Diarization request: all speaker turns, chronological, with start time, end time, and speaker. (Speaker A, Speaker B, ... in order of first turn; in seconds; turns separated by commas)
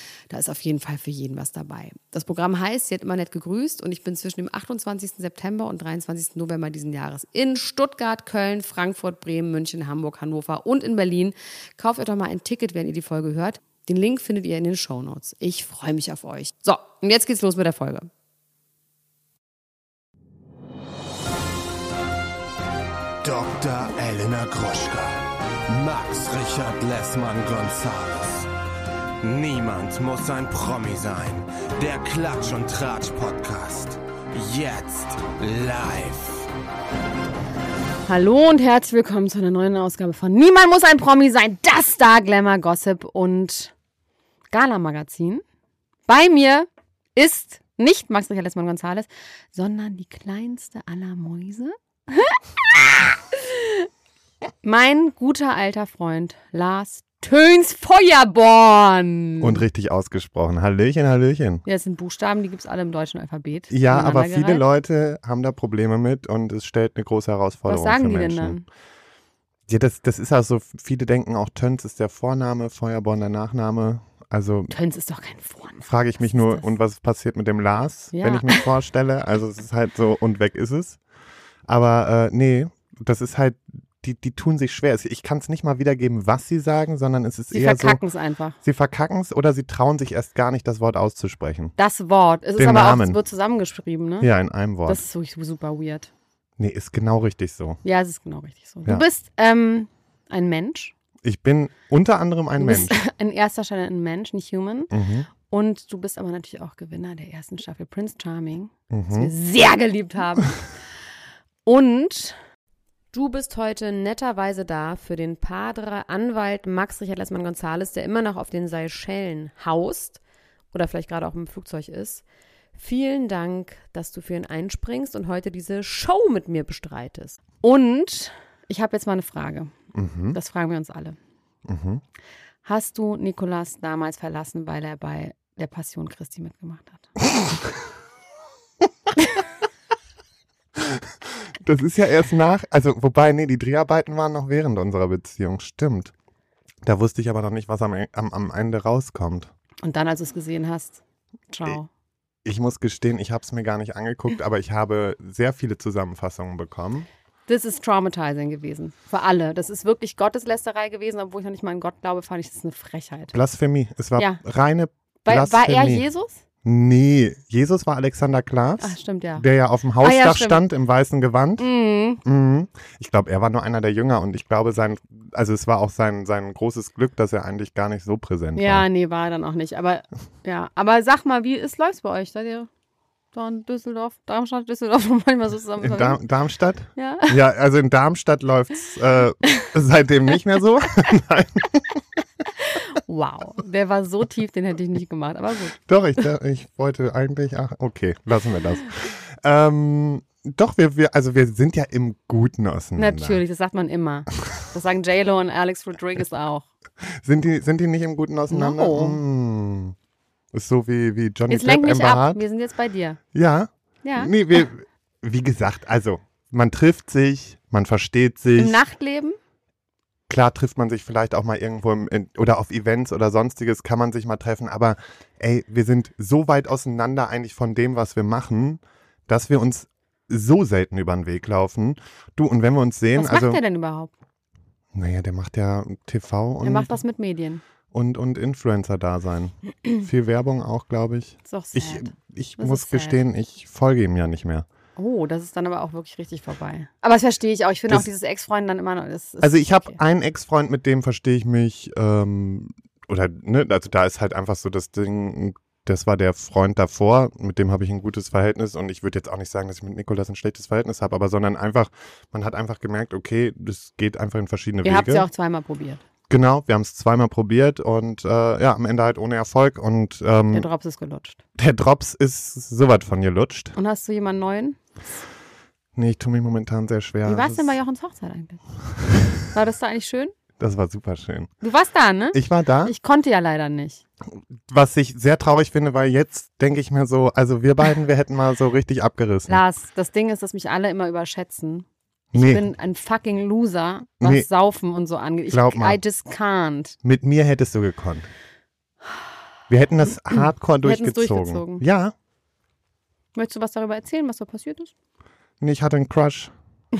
Speaker A: 0.3-18.1, Speaker B: 23.2-28.5, Speaker B: 29.2-36.5, Speaker A: 38.1-43.7, Speaker A: 44.5-45.4, Speaker A: 46.1-53.9, Speaker A: 54.6-59.6, Speaker C: 59.4-61.6, Speaker A: 61.6-64.7, Speaker C: 63.7-68.6, Speaker A: 67.7-68.7, Speaker C: 69.7-74.7, Speaker A: 74.7-76.7, Speaker C: 75.8-81.0, Speaker A: 78.1-78.6, Speaker C: 81.7-88.0, Speaker A: 87.5-88.6, Speaker C: 88.6-91.8, Speaker A: 91.8-94.3, Speaker C: 92.6-93.2, Speaker C: 94.2-95.0, Speaker A: 94.9-96.1, Speaker C: 96.6-97.8, Speaker A: 97.8-100.9, Speaker C: 101.2-103.0, Speaker A: 102.6-104.9, Speaker C: 104.9-105.3, Speaker A: 105.5-110.7, Speaker C: 108.9-109.3, Speaker A: 111.7-112.4, Speaker A: 113.1-120.2, Speaker A: 120.7-122.2, Speaker A: 122.8-129.7, Speaker C: 129.9-130.4, Speaker A: 130.3-131.2, Speaker C: 131.7-132.0, Speaker A: 132.7-137.1, Speaker C: 140.8-146.1, Speaker C: 146.8-149.5, Speaker A: 149.8-151.9, Speaker C: 152.4-157.1, Speaker A: 157.5-163.3, Speaker C: 163.3-166.1, Speaker A: 165.2-166.4, Speaker C: 166.7-171.7, Speaker A: 168.8-169.5, Speaker A: 170.0-170.6, Speaker A: 171.6-172.2, Speaker C: 172.2-178.9, Speaker A: 178.6-182.7, Speaker A: 183.3-186.2, Speaker C: 185.8-192.0, Speaker A: 187.0-187.4, Speaker A: 192.6-195.8, Speaker C: 195.9-203.4, Speaker A: 203.0-206.7, Speaker C: 207.0-209.9, Speaker A: 208.5-209.2, Speaker C: 210.5-212.4, Speaker A: 211.5-213.2, Speaker C: 213.3-218.8, Speaker A: 214.0-214.3, Speaker A: 218.6-219.4, Speaker C: 220.3-233.6, Speaker A: 233.2-234.1, Speaker C: 234.9-236.9, Speaker A: 236.6-237.6, Speaker C: 237.9-244.7, Speaker A: 241.5-243.2, Speaker A: 245.0-250.0, Speaker C: 249.4-265.3, Speaker A: 264.8-266.0, Speaker C: 266.3-270.7, Speaker A: 270.5-271.4, Speaker C: 271.6-273.8, Speaker A: 273.8-274.8, Speaker C: 275.9-277.8, Speaker A: 277.2-278.6, Speaker A: 279.5-280.3, Speaker C: 280.6-281.5, Speaker A: 281.6-284.0, Speaker C: 282.3-282.9, Speaker C: 284.7-289.6, Speaker A: 289.5-297.0, Speaker C: 292.3-292.7, Speaker C: 294.2-294.5, Speaker C: 295.5-296.0, Speaker C: 297.0-298.3, Speaker C: 299.7-302.1, Speaker A: 300.8-301.8, Speaker A: 303.4-304.9, Speaker C: 305.6-306.5